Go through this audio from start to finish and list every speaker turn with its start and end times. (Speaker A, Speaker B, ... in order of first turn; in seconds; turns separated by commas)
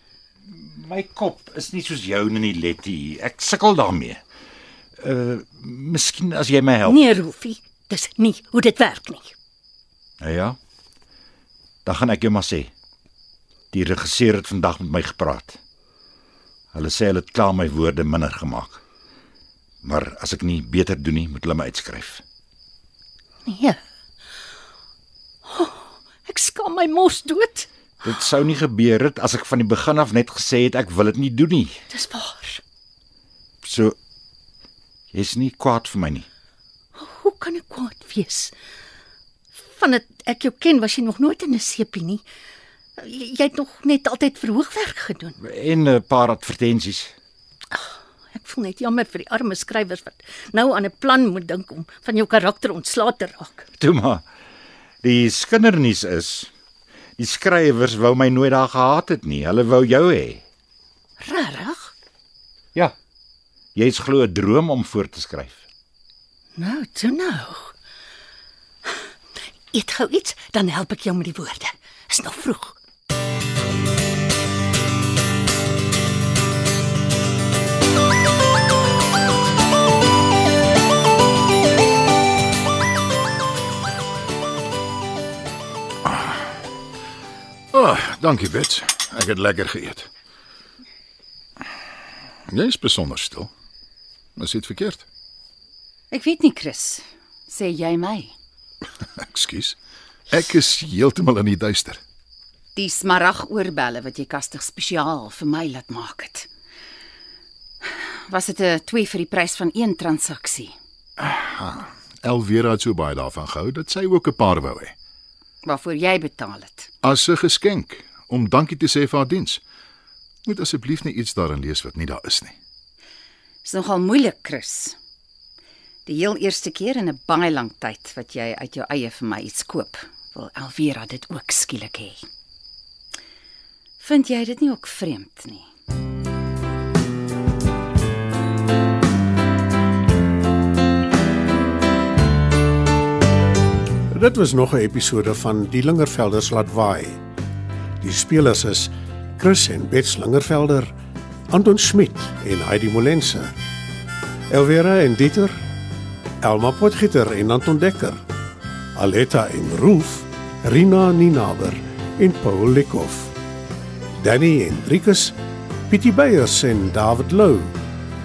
Speaker A: 0.5-4.2, Speaker A: 5.0-7.0, Speaker B: 6.8-9.3, Speaker A: 10.2-10.6, Speaker A: 11.8-12.7, Speaker A: 13.7-15.6, Speaker A: 16.7-18.8, Speaker A: 19.8-22.2, Speaker B: 23.5-23.8, Speaker B: 25.5-27.7, Speaker A: 28.0-31.8, Speaker B: 31.9-32.6, Speaker A: 33.6-34.0, Speaker A: 35.1-36.3, Speaker B: 37.0-38.5, Speaker B: 39.7-42.2, Speaker B: 43.0-45.4, Speaker A: 45.4-47.1, Speaker B: 47.7-53.7, Speaker A: 53.8-54.2, Speaker A: 55.0-56.5, Speaker A: 57.2-60.4, Speaker B: 61.2-61.9, Speaker A: 63.8-65.7, Speaker B: 66.6-67.7, Speaker B: 69.7-72.8, Speaker C: 87.7-90.1, Speaker C: 92.5-93.5, Speaker C: 94.4-95.0, Speaker D: 96.1-98.3, Speaker C: 99.2-99.8, Speaker C: 100.3-102.0, Speaker D: 102.8-106.5, Speaker D: 107.8-110.7, Speaker C: 111.2-115.0, Speaker D: 115.7-116.9, Speaker C: 117.0-119.6, Speaker C: 120.5-122.6, Speaker D: 123.7-125.0, Speaker D: 126.1-132.2, Speaker D: 134.0-135.7, Speaker E: 144.1-147.2, Speaker E: 148.0-150.9, Speaker E: 151.5-153.5, Speaker E: 154.5-155.6, Speaker E: 156.4-158.2, Speaker E: 159.0-163.3, Speaker E: 164.2-165.3, Speaker E: 165.9-167.7